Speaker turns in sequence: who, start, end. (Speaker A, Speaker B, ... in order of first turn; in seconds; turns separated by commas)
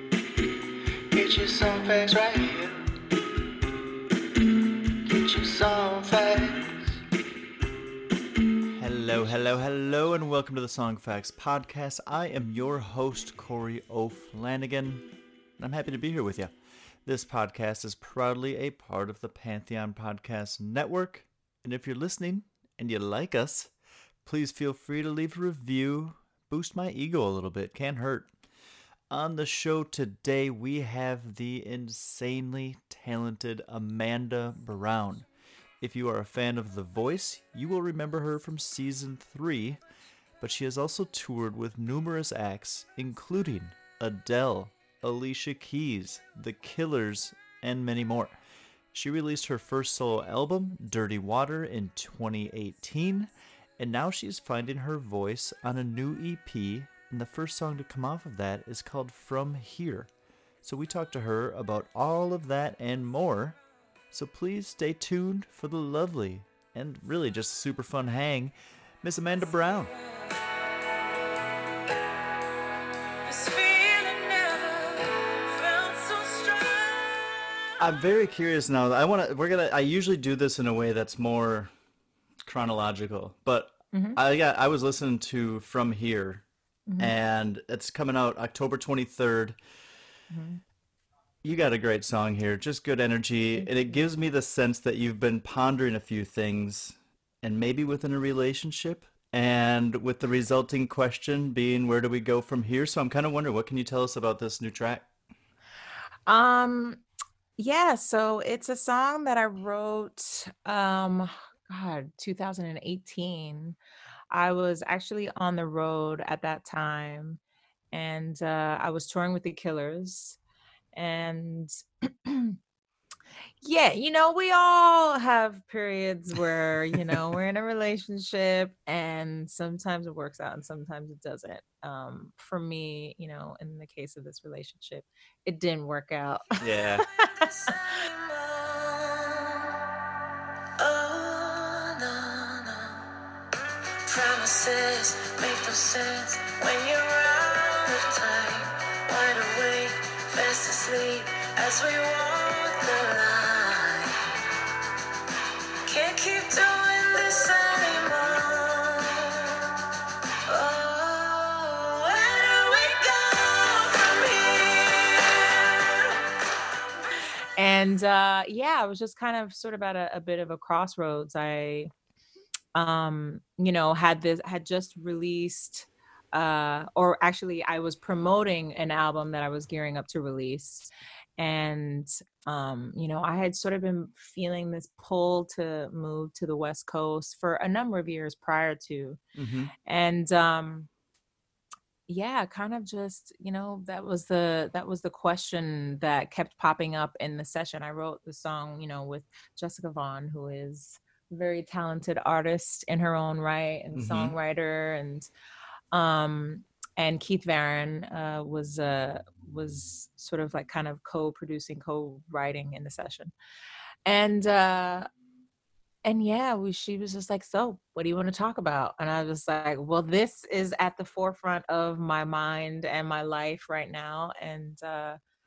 Speaker A: 1.1-2.8, Speaker A: 5.1-6.7, Speaker B: 8.8-16.5, Speaker B: 17.1-23.7, Speaker B: 24.2-28.3, Speaker B: 29.1-35.3, Speaker B: 35.8-39.8, Speaker B: 40.4-48.4, Speaker B: 48.9-60.1, Speaker B: 60.6-63.6, Speaker B: 64.1-69.9, Speaker C: 73.2-77.4, Speaker B: 77.8-81.7, Speaker B: 82.5-86.5, Speaker D: 83.9-84.2, Speaker D: 86.9-87.1, Speaker B: 87.0-89.6, Speaker D: 90.3-90.6, Speaker B: 91.4-105.1, Speaker D: 106.3-107.0, Speaker D: 107.6-113.8, Speaker D: 114.3-117.4, Speaker D: 117.9-120.4, Speaker D: 120.9-122.6, Speaker D: 123.6-136.6, Speaker B: 136.6-137.1, Speaker C: 137.3-139.8, Speaker C: 140.8-143.1, Speaker C: 144.1-154.2, Speaker C: 155.9-159.8, Speaker C: 160.5-166.2, Speaker D: 167.6-171.9, Speaker D: 172.8-189.2, Speaker B: 189.4-189.7, Speaker D: 189.8-190.9, Speaker D: 192.1-205.3, Speaker B: 203.9-204.3, Speaker D: 205.9-213.3, Speaker D: 214.1-215.1, Speaker D: 216.1-225.2